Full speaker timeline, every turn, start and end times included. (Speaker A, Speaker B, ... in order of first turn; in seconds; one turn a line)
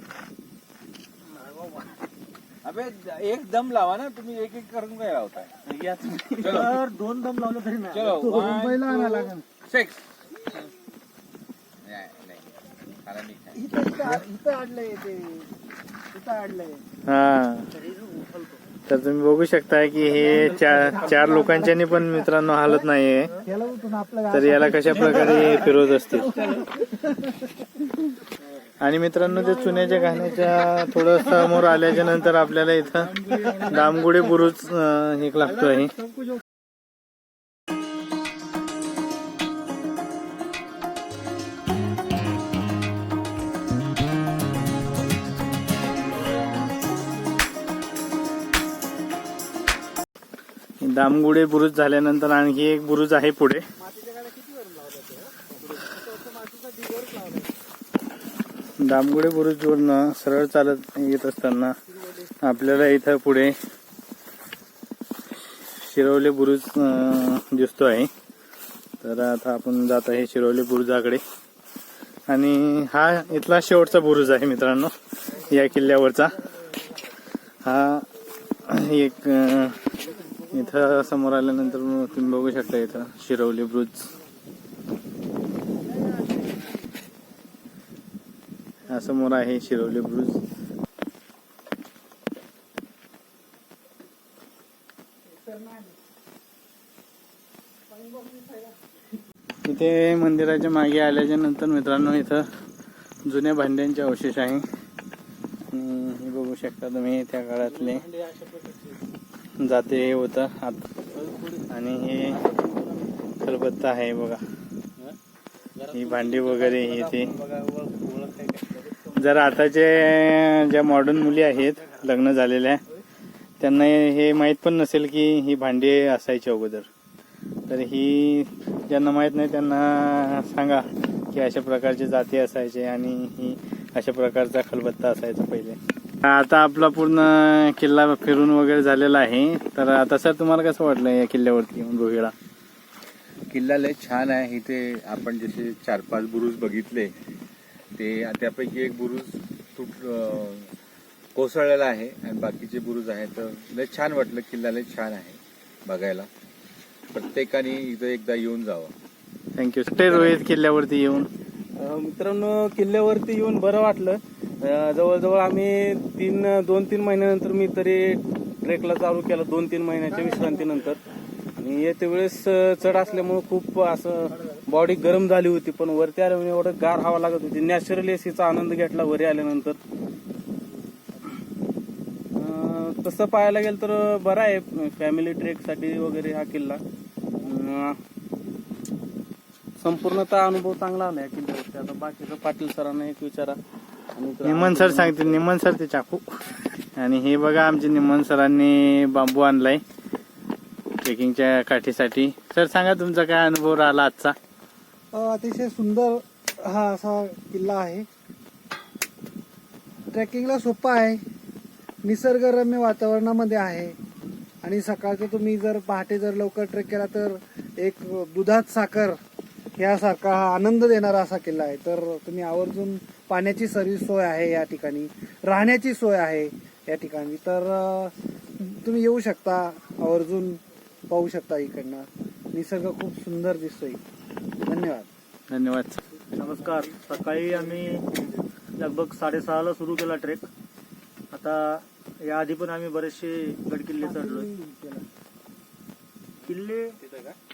Speaker A: 2.6-5.6
Speaker B: 5.8-6.5
Speaker A: 6.3-6.8
Speaker C: 6.4-8.3
Speaker A: 7.9-10.0
Speaker D: 8.1-9.4
Speaker A: 11.8-13.6
Speaker D: 13.6-15.6
Speaker D: 16.1-16.8
Speaker E: 17.1-17.7
Speaker C: 17.8-18.6
Speaker E: 18.9-23.3
Speaker D: 20.1-22.9
Speaker B: 20.3-21.3
Speaker D: 23.4-28.0
Speaker E: 24.3-26.4
Speaker B: 26.3-26.7
Speaker E: 28.8-35.9
Speaker D: 29.5-30.7
Speaker B: 33.0-34.1
Speaker B: 35.6-36.3
Speaker E: 50.8-53.7
Speaker D: 53.9-55.5
Speaker D: 56.0-57.5
Speaker E: 58.8-61.8
Speaker E: 62.4-63.6
Speaker E: 65.7-68.1
Speaker E: 69.0-71.2
Speaker E: 72.3-76.4
Speaker E: 77.6-78.1
Speaker E: 78.7-79.9
Speaker E: 80.5-84.1
Speaker E: 88.9-90.4
Speaker D: 95.5-95.9
Speaker D: 98.0-98.7
Speaker E: 99.7-102.5
Speaker E: 103.2-104.7
Speaker E: 105.7-108.0
Speaker B: 107.7-109.0
Speaker E: 109.6-110.8
Speaker B: 111.1-111.7
Speaker E: 111.7-112.4
Speaker B: 112.3-113.1
Speaker E: 113.4-114.4
Speaker B: 115.8-119.1
Speaker E: 115.9-117.3
Speaker E: 119.2-122.8
Speaker E: 123.6-126.9
Speaker E: 127.7-142.3
Speaker A: 143.5-147.1
Speaker A: 148.0-150.7
Speaker A: 151.3-156.3
Speaker A: 157.1-158.9
Speaker E: 159.6-161.3
Speaker B: 160.1-160.3
Speaker B: 161.8-171.0
Speaker B: 171.6-179.8
Speaker B: 182.3-186.8
Speaker B: 187.4-188.0
Speaker B: 189.8-193.6
Speaker B: 194.2-195.4
Speaker E: 194.4-199.8
Speaker E: 201.0-204.4
Speaker D: 205.1-208.1
Speaker D: 210.1-211.2
Speaker D: 212.0-214.0
Speaker D: 214.6-219.2
Speaker D: 219.8-234.0
Speaker D: 234.6-235.1
Speaker E: 235.5-236.0
Speaker C: 236.4-238.1
Speaker B: 236.7-238.2
Speaker C: 238.8-240.5
Speaker C: 241.3-244.5
Speaker D: 244.0-245.1
Speaker C: 246.5-247.0
Speaker B: 247.0-247.4